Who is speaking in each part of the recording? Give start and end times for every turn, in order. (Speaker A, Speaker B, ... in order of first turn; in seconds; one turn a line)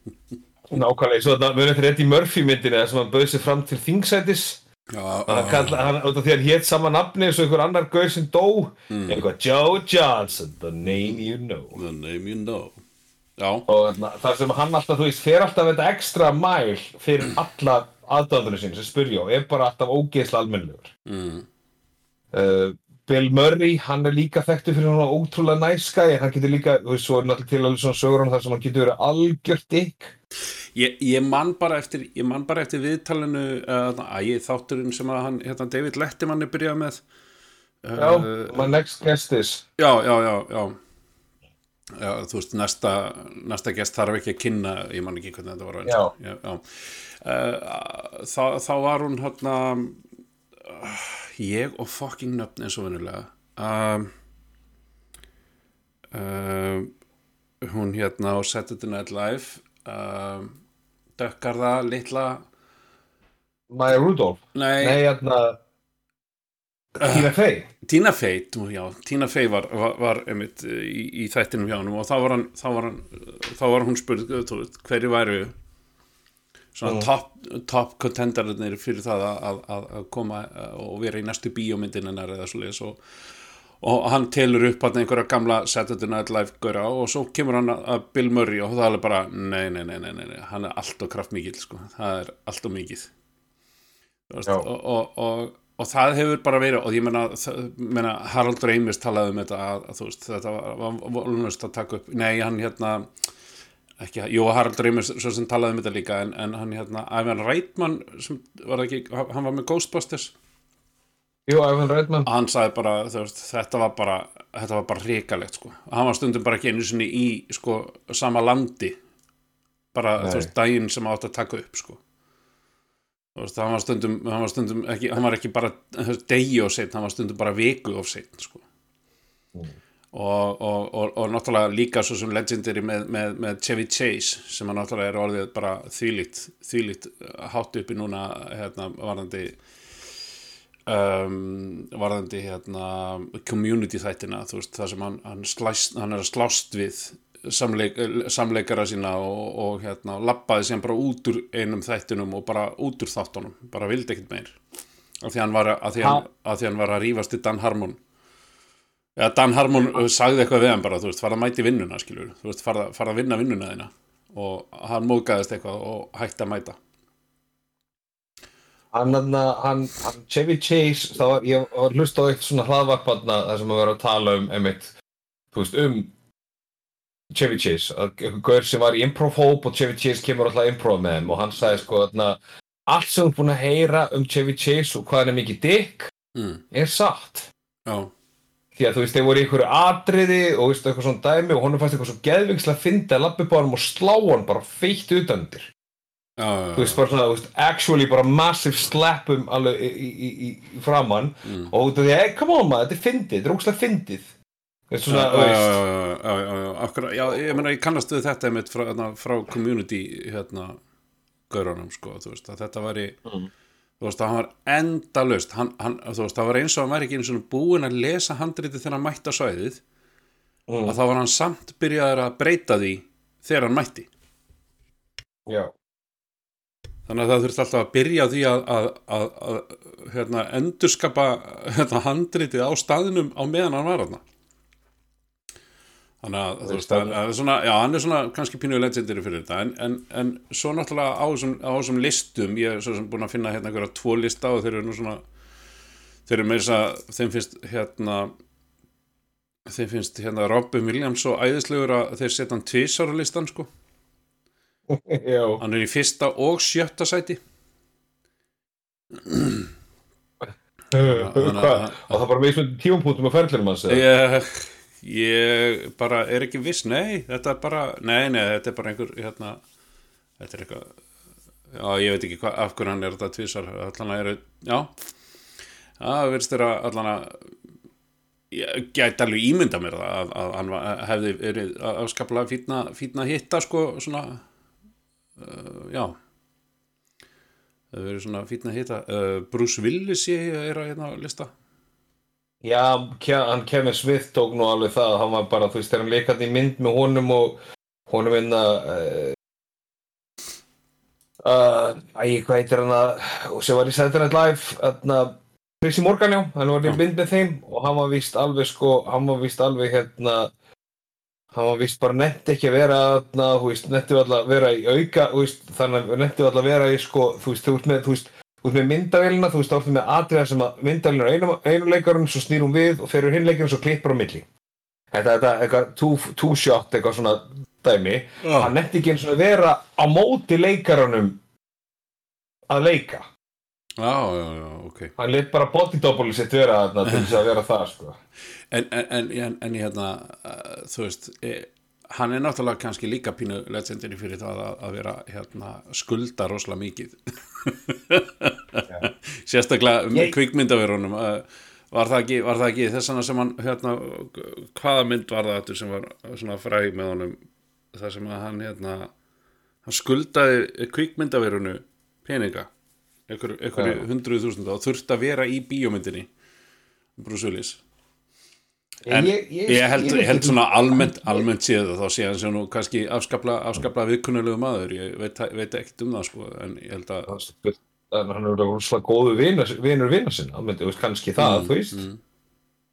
Speaker A: 0.7-4.6
Speaker B: 4.9-5.9
Speaker A: 5.3-11.8
Speaker B: 8.9-9.3
Speaker B: 10.8-12.8
Speaker B: 13.4-13.7
Speaker A: 13.7-20.9
Speaker B: 21.1-21.5
Speaker A: 22.3-30.1
Speaker B: 30.7-37.0
Speaker B: 37.8-38.8
Speaker A: 38.0-39.6
Speaker B: 39.8-40.8
Speaker B: 42.0-50.0
Speaker A: 45.9-46.1
Speaker B: 50.6-54.1
Speaker B: 56.1-56.9
Speaker B: 57.6-60.6
Speaker B: 61.2-62.5
Speaker A: 63.7-65.6
Speaker B: 64.5-65.0
Speaker A: 67.0-67.7
Speaker B: 67.0-67.3
Speaker B: 67.8-75.5
Speaker B: 76.7-83.0
Speaker A: 76.8-77.1
Speaker B: 83.8-93.1
Speaker B: 94.3-103.1
Speaker B: 104.0-110.3
Speaker A: 111.5-112.3
Speaker B: 112.2-119.0
Speaker B: 119.9-122.0
Speaker A: 120.2-120.5
Speaker B: 123.4-128.6
Speaker B: 130.1-139.6
Speaker B: 140.9-154.6
Speaker B: 155.2-158.0
Speaker A: 156.0-156.2
Speaker B: 159.2-166.8
Speaker A: 168.9-174.9
Speaker A: 175.5-176.1
Speaker A: 177.3-186.1
Speaker B: 186.3-186.6
Speaker A: 186.7-187.5
Speaker B: 187.9-188.1
Speaker A: 188.8-195.7
Speaker B: 196.4-197.0
Speaker A: 196.8-204.3
Speaker B: 201.4-201.7
Speaker A: 204.9-205.8
Speaker B: 205.1-210.8
Speaker B: 211.5-213.2
Speaker B: 214.0-219.8
Speaker A: 220.7-221.0
Speaker B: 220.9-224.1
Speaker A: 225.5-225.7
Speaker B: 227.1-234.2
Speaker B: 236.2-245.2
Speaker A: 236.6-237.2
Speaker B: 246.3-248.3
Speaker B: 249.7-253.7
Speaker A: 254.9-255.6
Speaker B: 255.6-257.4
Speaker B: 259.2-259.7
Speaker A: 260.9-264.0
Speaker B: 261.0-262.2
Speaker B: 263.9-269.6
Speaker B: 270.4-271.0
Speaker B: 271.7-274.9
Speaker B: 276.0-277.4
Speaker B: 278.5-284.4
Speaker B: 285.4-286.2
Speaker B: 287.9-291.5
Speaker A: 292.6-299.4
Speaker A: 301.4-310.5
Speaker A: 311.5-324.5
Speaker A: 325.1-331.4
Speaker B: 328.4-328.7
Speaker A: 332.7-333.3
Speaker B: 334.0-335.1
Speaker A: 335.2-338.2
Speaker B: 337.1-337.4
Speaker B: 338.7-357.4
Speaker B: 357.9-359.1
Speaker B: 359.9-362.7
Speaker B: 363.3-366.3
Speaker A: 363.8-364.0
Speaker B: 367.2-367.8
Speaker A: 369.1-371.5
Speaker B: 369.1-377.3
Speaker A: 377.3-382.0
Speaker B: 381.4-382.2